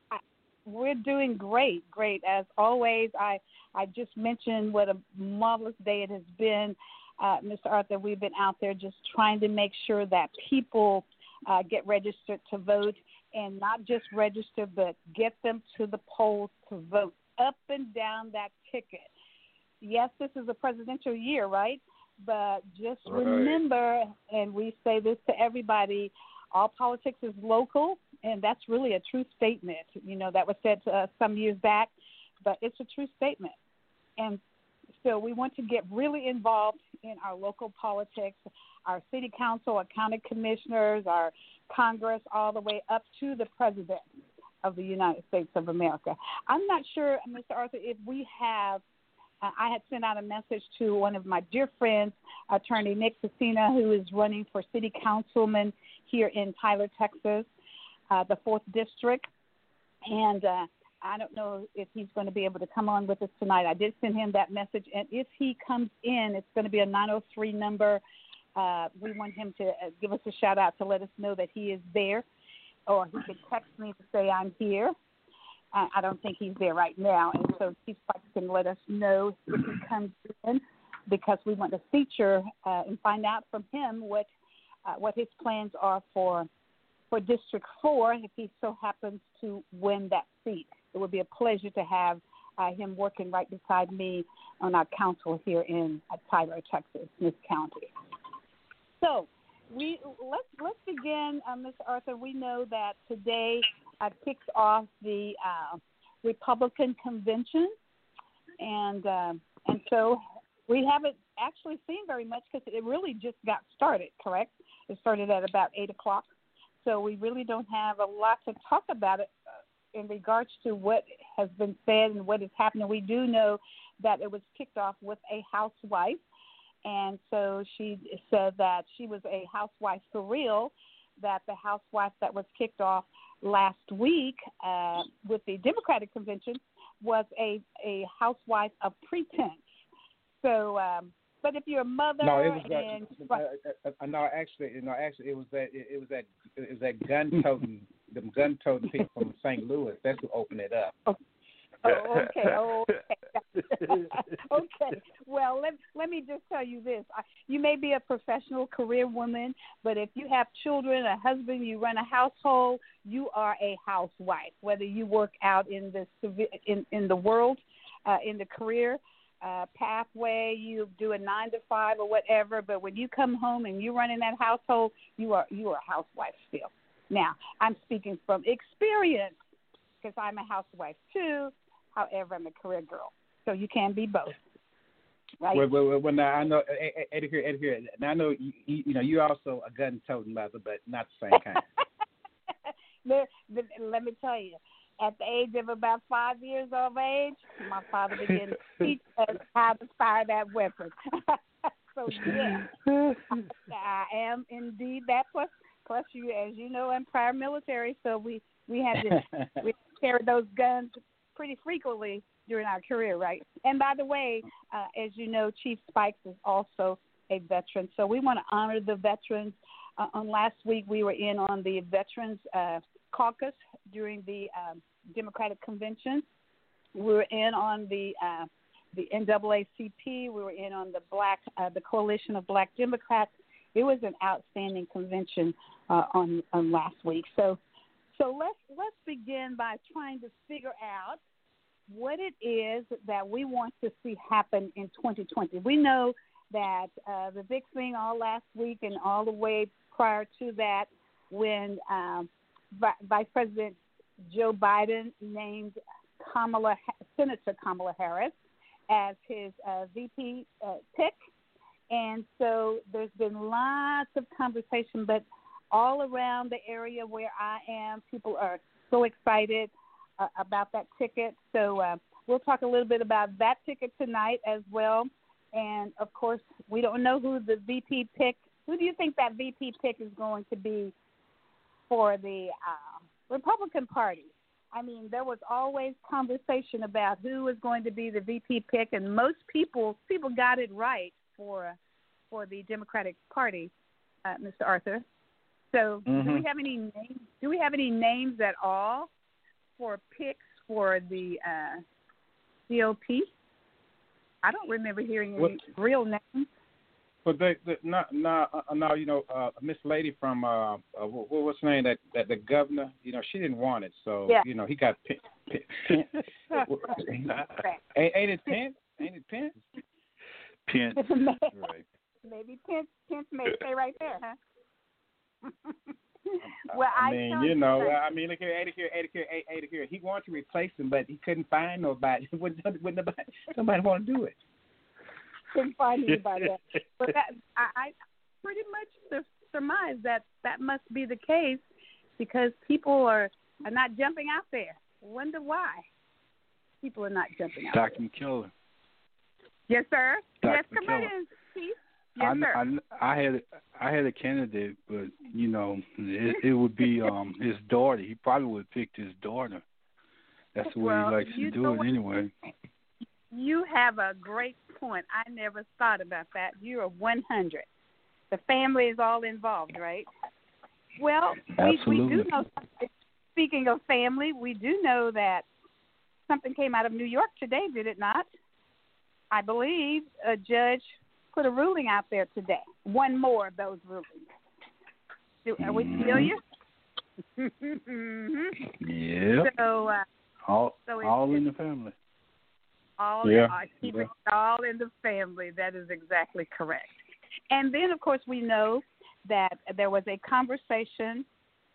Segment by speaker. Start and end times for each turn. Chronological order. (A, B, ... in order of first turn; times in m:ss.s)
0:00.1-0:19.1 A
0:19.8-0:33.6 A
0:23.1-0:23.5 B
0:35.0-0:44.1 A
0:44.6-0:48.8 A
0:49.4-0:57.5 A
0:58.1-0:59.3 A
1:00.1-1:08.0 A
1:08.6-1:12.3 A
1:12.9-1:14.9 A
1:15.7-1:24.3 A
1:24.9-1:26.5 A
1:27.1-1:37.9 A
1:39.0-1:47.7 A
1:48.6-1:56.3 A
1:56.8-1:59.3 A
1:59.9-2:06.2 A
2:06.8-2:19.6 A
2:20.4-2:23.4 A
2:22.2-2:31.0 B
2:31.8-2:59.4 A
2:33.8-2:34.1 C
3:00.0-3:04.4 A
3:05.5-3:11.6 B
3:13.0-3:22.7 A
3:22.9-3:23.2 C
3:23.3-3:46.3 A
3:29.0-3:29.5 B
3:47.0-3:57.6 A
3:58.2-4:01.2 A
4:01.9-4:13.8 A
4:14.3-4:18.3 A
4:18.9-4:21.2 A
4:21.9-4:40.9 A
4:41.9-4:51.8 A
4:52.3-4:53.7 A
4:54.2-4:55.0 A
4:55.7-4:59.1 A
4:56.1-4:56.4 B
4:59.8-5:01.8 A
5:02.7-5:03.3 A
5:04.4-5:06.5 A
5:07.2-5:17.4 B
5:16.5-5:17.0 A
5:17.3-5:17.6 C
5:17.9-5:19.6 B
5:20.7-5:21.8 C
5:21.0-5:21.5 A
5:22.2-5:24.4 A
5:26.3-5:28.0 A
5:26.4-5:34.4 B
5:35.5-5:41.6 A
5:36.1-5:36.5 C
5:42.2-5:45.9 A
5:46.8-5:48.0 A
5:47.7-5:48.5 C
5:49.7-5:52.6 A
5:50.4-5:51.1 C
5:52.2-5:59.6 C
6:00.6-6:02.3 C
6:00.6-6:01.9 A
6:03.3-6:07.7 A
6:08.3-6:10.1 A
6:11.0-6:15.5 A
6:11.6-6:12.3 C
6:16.3-6:18.3 A
6:19.3-6:24.2 A
6:25.4-6:26.4 A
6:25.6-6:26.3 C
6:26.0-6:26.3 B
6:27.4-6:28.6 A
6:28.8-6:29.5 C
6:29.4-6:30.0 A
6:30.5-6:31.9 C
6:30.9-6:31.4 A
6:33.0-6:37.0 A
6:33.3-6:34.1 B
6:37.5-6:41.2 A